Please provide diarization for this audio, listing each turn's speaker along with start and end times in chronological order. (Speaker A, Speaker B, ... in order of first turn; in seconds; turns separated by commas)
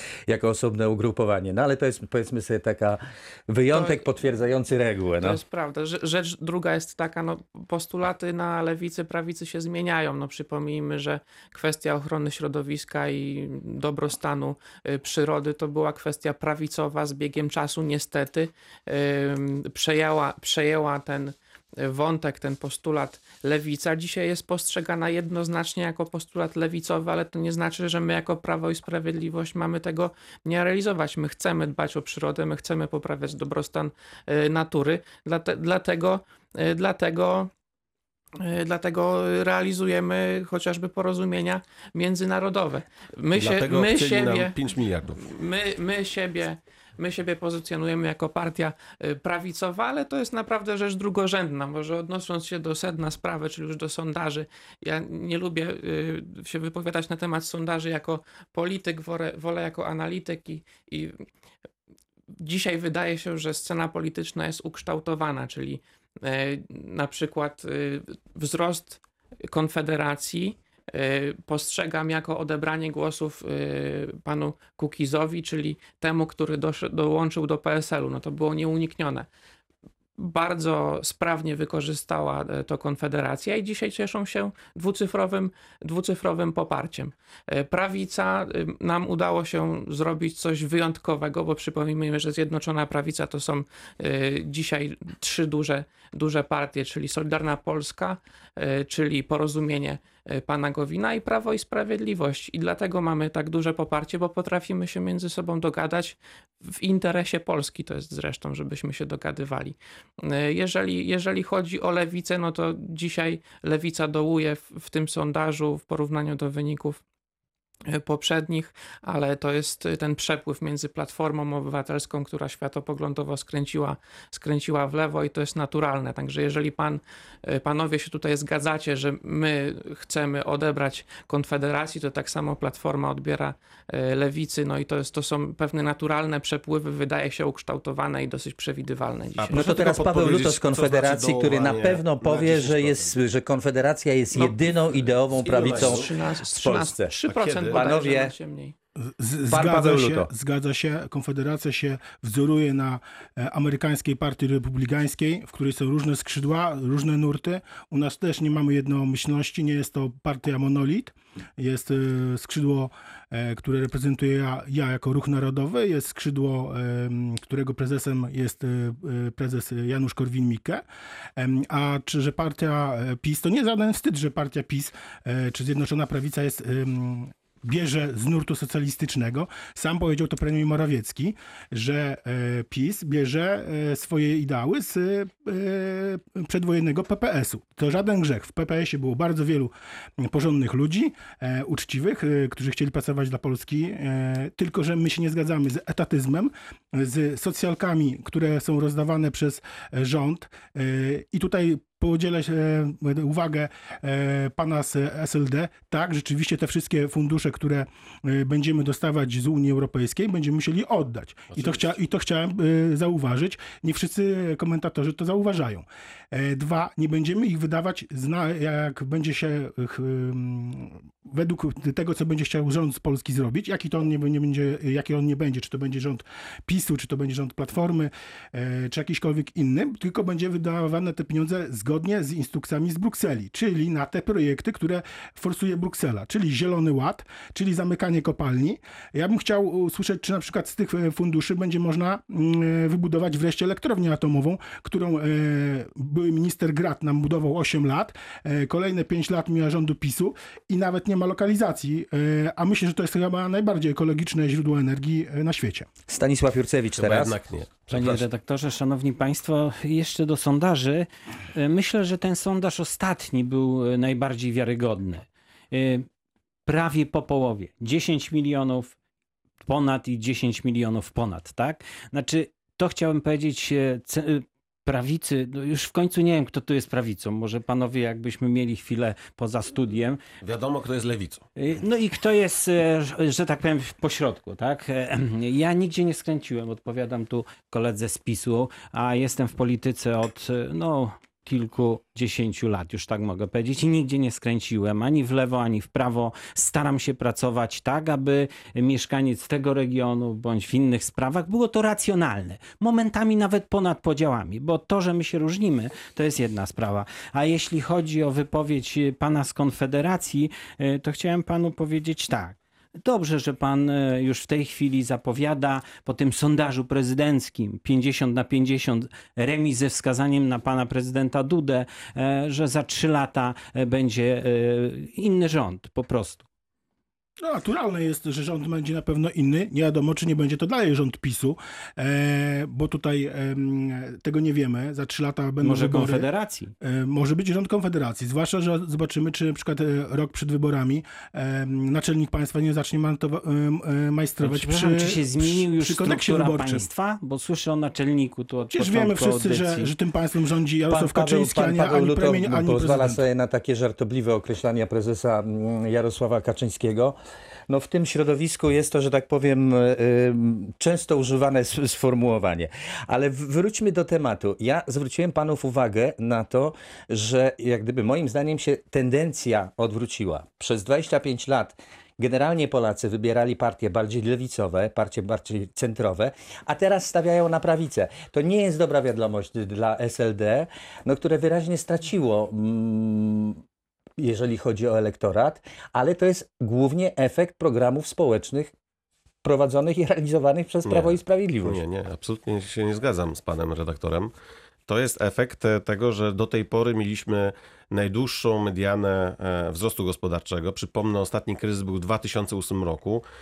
Speaker A: 0.3-5.4, Speaker B: 3.7-4.0, Speaker B: 5.2-37.5, Speaker B: 38.4-44.5, Speaker C: 43.4-45.3, Speaker B: 45.2-61.2, Speaker B: 62.4-79.3, Speaker B: 80.2-117.0, Speaker B: 117.9-139.8, Speaker C: 139.4-143.2, Speaker A: 139.5-148.3, Speaker B: 144.3-148.7, Speaker C: 145.4-146.0, Speaker C: 147.3-147.9, Speaker D: 149.0-170.8, Speaker A: 149.4-150.3, Speaker D: 171.4-255.9, Speaker C: 211.5-211.9, Speaker A: 256.1-257.3, Speaker C: 257.0-258.2, Speaker E: 257.9-266.1, Speaker E: 266.6-268.9, Speaker E: 269.6-280.2, Speaker C: 280.4-281.4, Speaker E: 281.6-326.4, Speaker D: 327.4-336.3, Speaker E: 335.6-336.7, Speaker D: 336.8-346.9, Speaker E: 344.4-349.9, Speaker D: 348.7-353.2, Speaker A: 350.9-357.1, Speaker A: 357.7-383.6, Speaker A: 384.2-388.7, Speaker A: 389.4-391.8, Speaker C: 390.9-394.3, Speaker C: 394.9-403.2